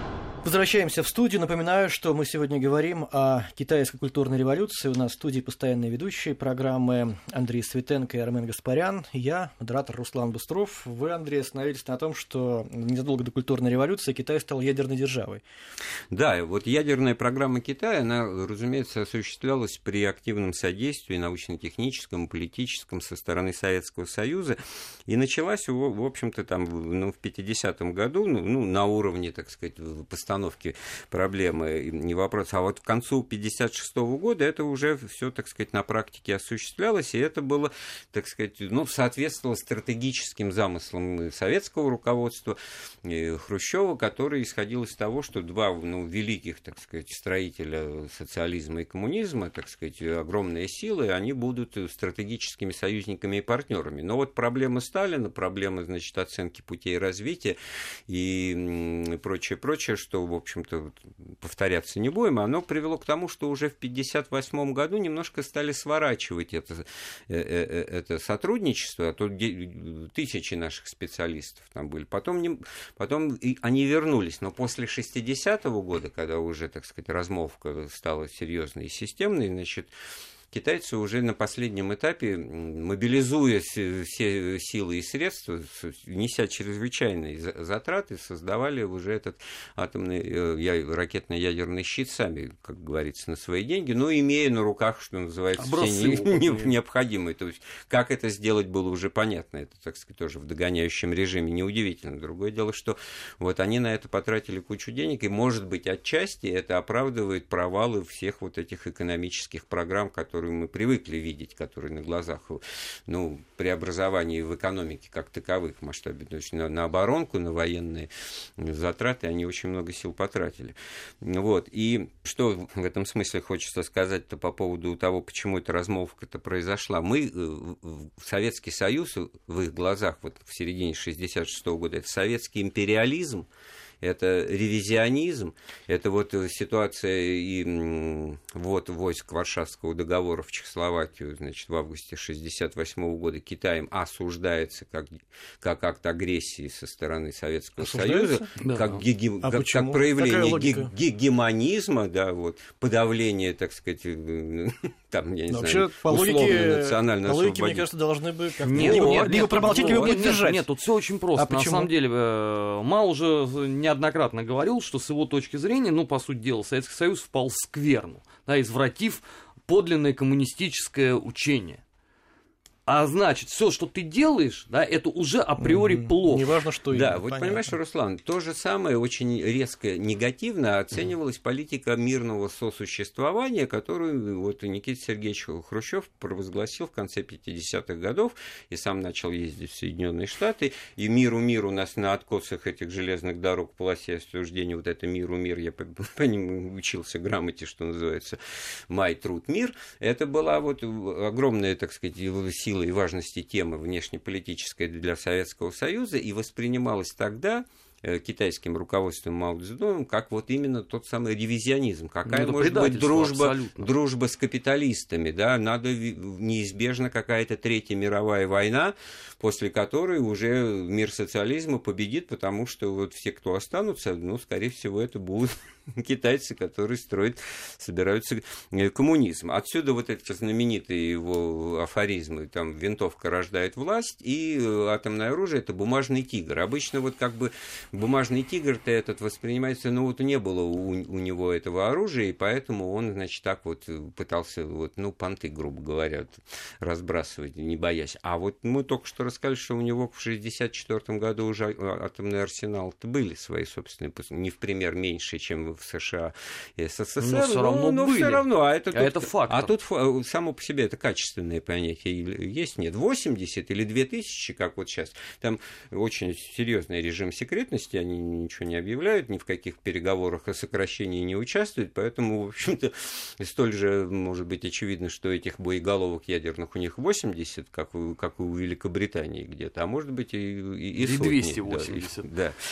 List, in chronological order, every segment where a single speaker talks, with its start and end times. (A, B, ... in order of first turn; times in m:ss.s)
0:00.4-0:15.4 A
0:16.1-1:19.9 B
1:20.5-2:13.5 B
1:35.6-1:36.7 C
2:14.0-2:37.9 B
2:27.8-2:28.5 A
2:28.6-2:29.0 C
2:29.4-2:30.9 A
2:35.5-2:40.7 A
2:38.6-2:51.8 C
2:38.7-2:40.1 B
2:41.3-2:41.9 A
2:52.9-2:56.4 C
2:55.6-2:57.7 A
2:56.9-3:18.4 B
3:18.9-4:42.6 B
3:32.2-3:33.9 C
4:17.2-4:19.7 C
4:41.0-4:42.3 C